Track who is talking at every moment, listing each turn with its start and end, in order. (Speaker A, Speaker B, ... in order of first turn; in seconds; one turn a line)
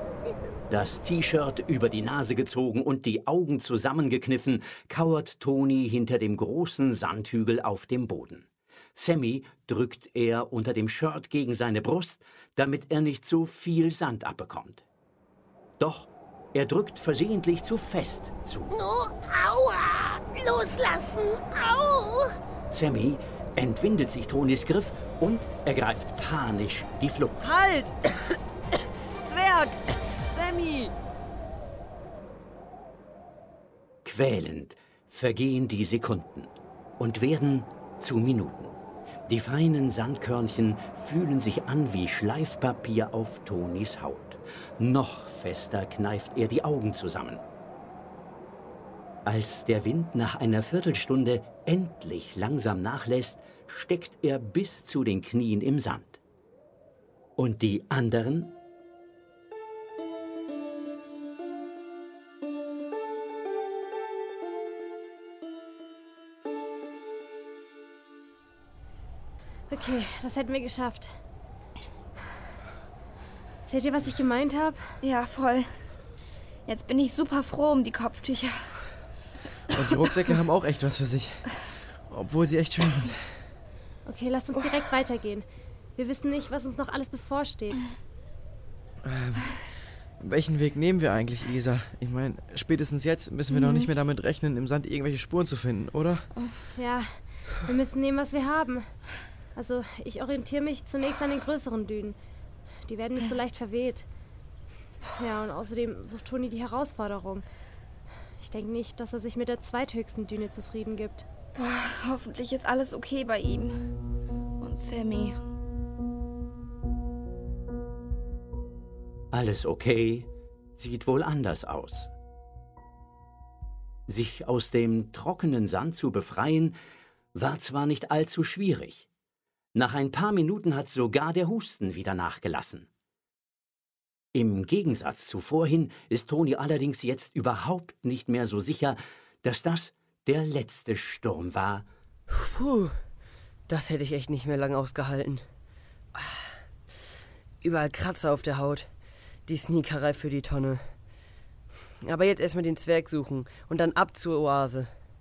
Speaker A: 0.7-14.8
Speaker A: 15.8-18.7
Speaker B: 18.7-22.4
Speaker A: 22.7-27.5
Speaker C: 27.4-27.9
Speaker C: 29.2-30.9
Speaker A: 34.0-38.7
Speaker A: 39.3-47.4
Speaker A: 49.2-56.2
Speaker A: 57.4-58.6
Speaker D: 69.7-71.1
Speaker D: 73.7-74.8
Speaker E: 75.0-75.7
Speaker E: 76.7-78.7
Speaker F: 79.7-81.5
Speaker F: 82.0-83.2
Speaker D: 84.1-85.5
Speaker D: 86.0-87.9
Speaker F: 89.0-89.6
Speaker F: 90.2-96.3
Speaker E: 93.5-93.9
Speaker D: 96.8-98.9
Speaker D: 99.5-102.2
Speaker D: 102.9-104.1
Speaker D: 105.2-107.5
Speaker D: 108.4-111.3
Speaker E: 111.5-113.8
Speaker E: 114.6-115.4
Speaker A: 119.3-122.1
Speaker A: 124.1-126.8
Speaker A: 127.3-129.1
Speaker A: 129.8-132.9
Speaker A: 134.3-141.9
Speaker C: 142.3-142.9
Speaker C: 143.7-145.5
Speaker C: 147.6-148.9
Speaker C: 149.5-150.8
Speaker C: 152.0-154.9